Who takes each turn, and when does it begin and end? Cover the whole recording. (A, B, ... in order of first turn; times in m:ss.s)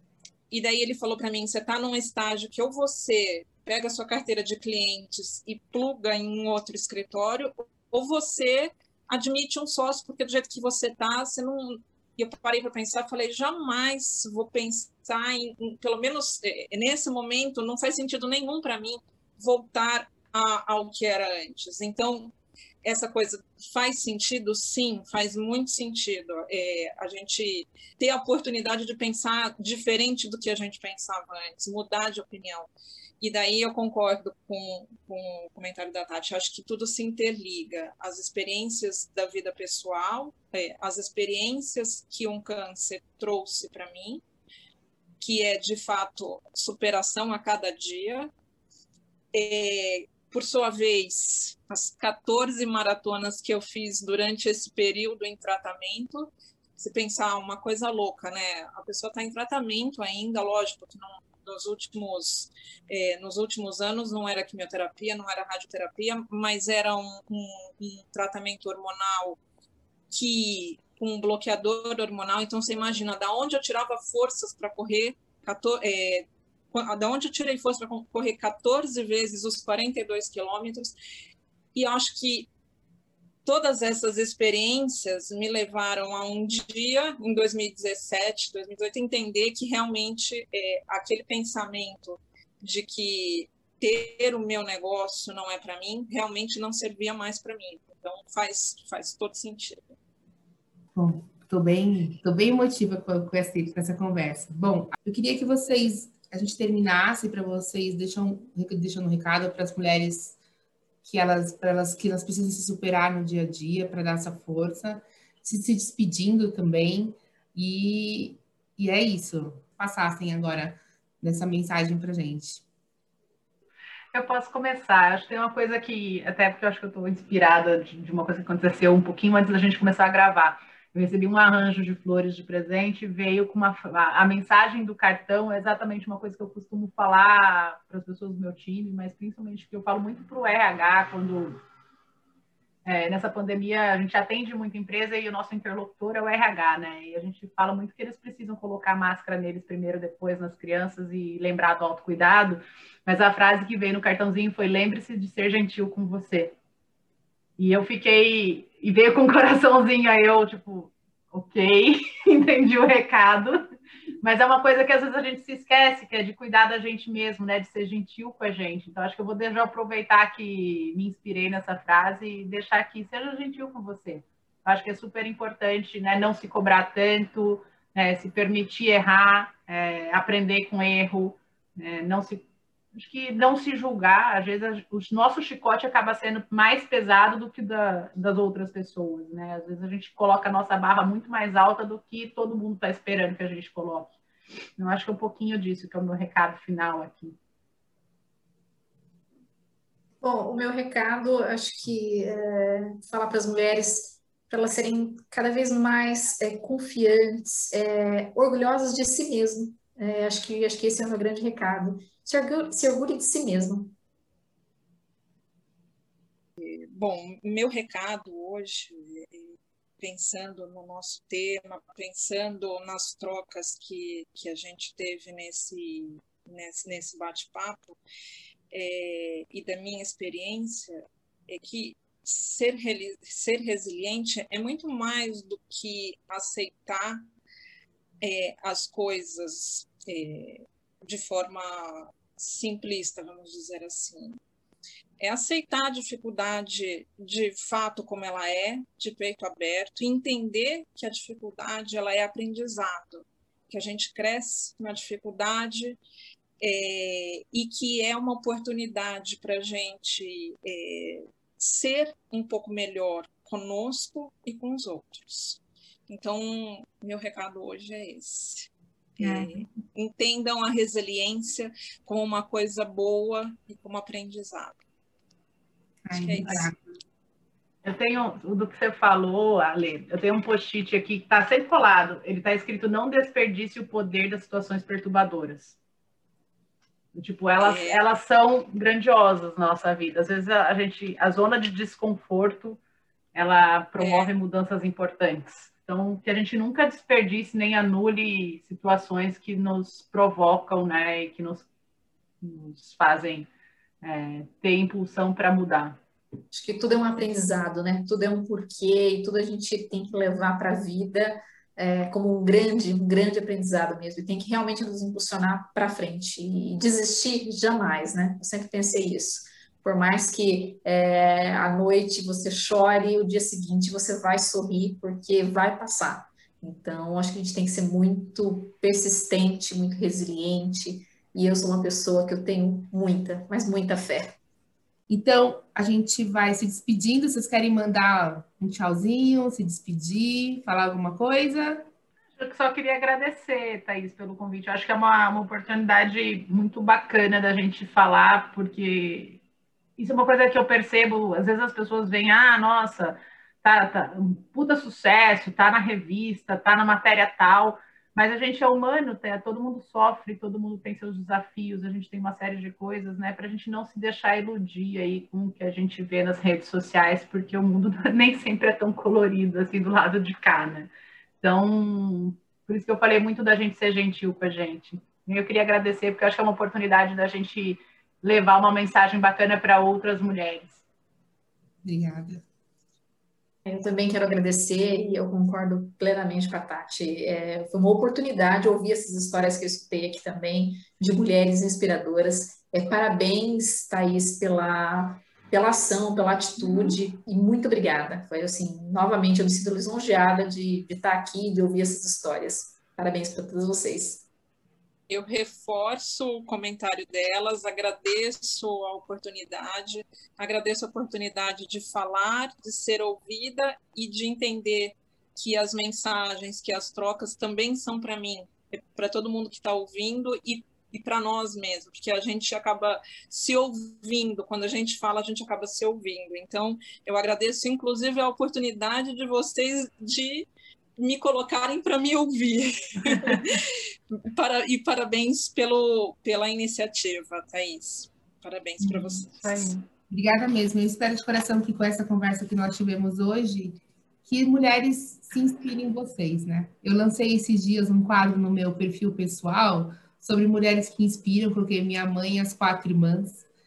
0:00.5-0:44.2 A
0:45.2-0:48.3 A
0:49.3-1:09.4 A
1:10.1-1:20.9 A
1:21.8-1:22.5 A
1:23.4-1:40.0 A
1:41.0-1:50.4 B
1:51.0-2:02.6 B
2:04.1-2:21.6 C
2:22.8-2:36.6 C
2:37.6-2:43.6 C
2:44.2-3:14.2 C
3:14.8-3:17.4 C
3:20.2-3:34.0 D
3:36.6-3:48.0 A
3:48.7-3:57.3 A
3:58.2-4:04.4 A
4:05.2-4:16.0 A
4:16.6-4:34.8 A
4:29.2-4:29.7 B
4:36.0-4:36.8 B
4:36.1-4:36.7 A
4:37.8-4:45.8 C
4:47.2-4:52.8 C
4:47.6-4:48.0 A
4:53.3-5:01.7 C
4:54.0-4:54.3 A
5:02.4-5:03.5 C
5:04.0-5:06.0 C
5:06.5-5:34.4 D
5:35.1-5:41.9 B
5:42.4-5:49.4 C
5:50.0-6:20.8 C
6:21.8-6:22.4 B
6:23.6-6:44.3 D
6:45.1-7:19.7 A
7:13.0-7:13.4 C
7:18.8-7:19.9 C
7:20.1-7:33.4 B